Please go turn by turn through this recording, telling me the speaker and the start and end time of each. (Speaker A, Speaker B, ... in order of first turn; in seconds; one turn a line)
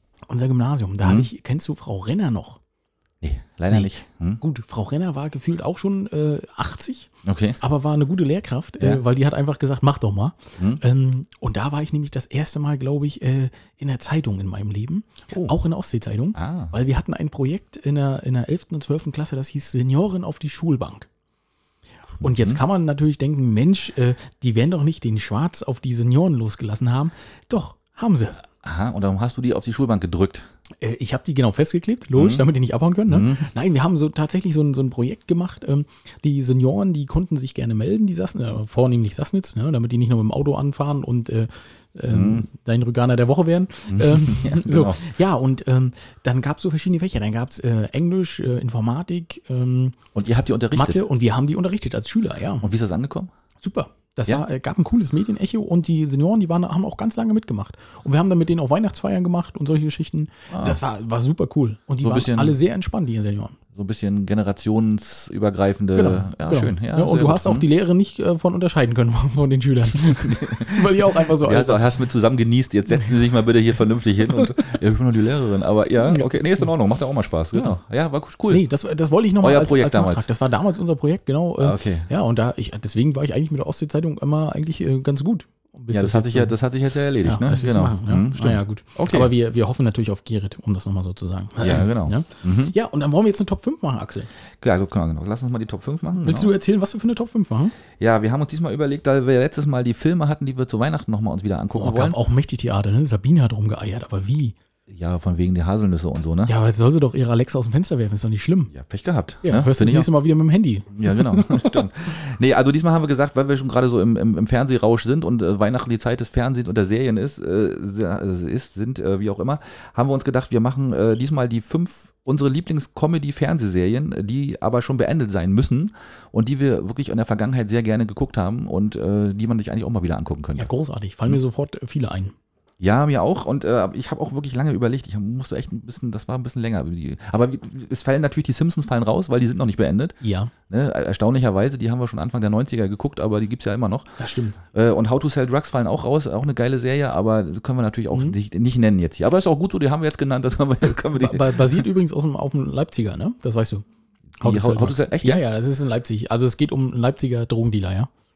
Speaker A: 0.3-2.6
Speaker B: 1.0-1.3
Speaker B: 3.2-4.4
Speaker A: 4.4-7.1
Speaker B: 7.2-7.6
Speaker A: 7.6-21.1
Speaker B: 16.4-16.7
Speaker B: 22.2-22.6
Speaker A: 22.2-28.4
Speaker B: 28.6-30.5
Speaker A: 30.8-50.0
Speaker B: 32.1-32.4
Speaker B: 33.1-33.5
Speaker B: 42.1-42.5
Speaker B: 43.9-45.1
Speaker B: 50.1-51.0
Speaker A: 50.7-52.7
Speaker B: 52.6-53.3
Speaker A: 53.6-63.6
Speaker B: 60.5-60.8
Speaker B: 62.0-62.6
Speaker B: 63.7-67.7
Speaker A: 65.9-71.8
Speaker B: 70.0-78.6
Speaker A: 76.0-76.7
Speaker A: 78.5-86.5
Speaker B: 79.4-80.3
Speaker B: 81.6-82.1
Speaker B: 85.9-89.3
Speaker A: 87.2-94.3
Speaker B: 91.6-92.8
Speaker B: 94.6-96.6
Speaker A: 96.2-97.8
Speaker B: 98.0-102.2
Speaker A: 101.8-104.5
Speaker B: 104.9-106.5
Speaker A: 106.4-108.7
Speaker B: 108.7-110.1
Speaker A: 109.4-111.8
Speaker B: 110.9-130.7
Speaker A: 130.6-132.3
Speaker B: 132.8-140.2
Speaker A: 140.2-140.5
Speaker B: 140.7-144.2
Speaker A: 144.2-144.6
Speaker B: 144.7-151.7
Speaker A: 151.2-153.8
Speaker B: 154.4-155.4
Speaker A: 154.4-158.1